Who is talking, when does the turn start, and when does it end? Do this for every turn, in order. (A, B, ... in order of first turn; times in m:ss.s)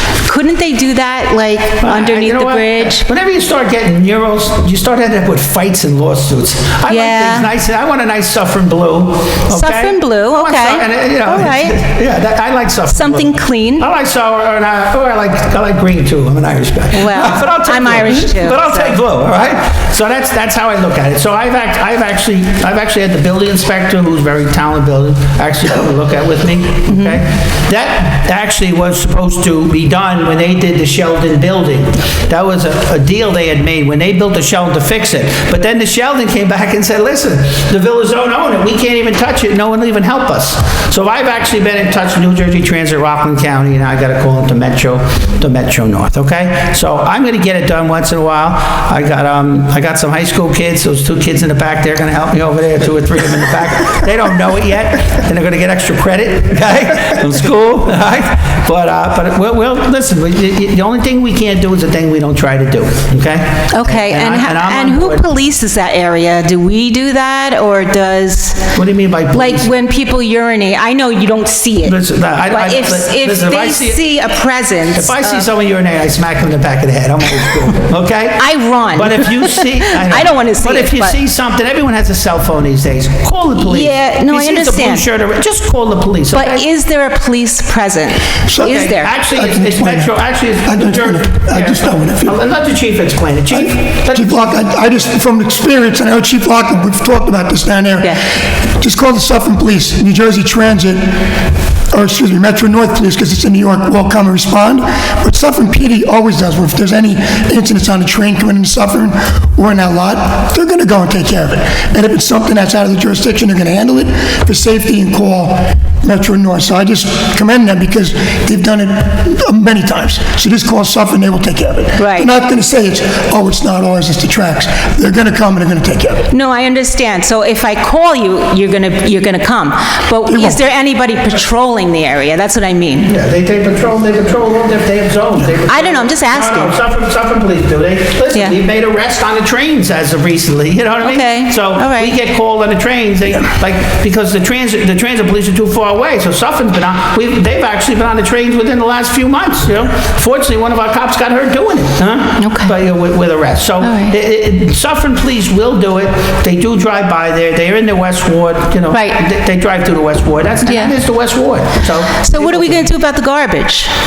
0:00.2-0:03.1 A
0:01.8-1:05.2 B
0:06.9-0:07.5 A
0:09.5-0:11.8 A
0:12.9-0:13.9 A
0:16.9-0:19.0 A
0:26.9-0:27.2 A
1:03.7-1:08.7 A
1:08.8-1:09.7 B
1:09.3-1:15.5 A
1:11.8-1:14.0 B
1:15.0-1:26.7 B
1:18.4-1:21.2 A
1:23.6-1:25.0 A
1:26.3-1:29.1 A
1:28.5-1:32.4 C
1:28.6-1:34.6 B
1:33.5-1:41.2 C
1:41.9-2:06.3 C
2:02.0-2:02.3 A
2:06.3-2:13.1 A
2:10.3-2:10.6 C
2:13.1-2:42.9 B
2:15.7-2:16.7 A
2:21.0-2:22.1 A
2:32.4-2:32.8 A
2:33.8-2:34.2 A
2:38.9-2:39.2 A
2:40.7-2:40.9 A
2:42.2-2:43.9 A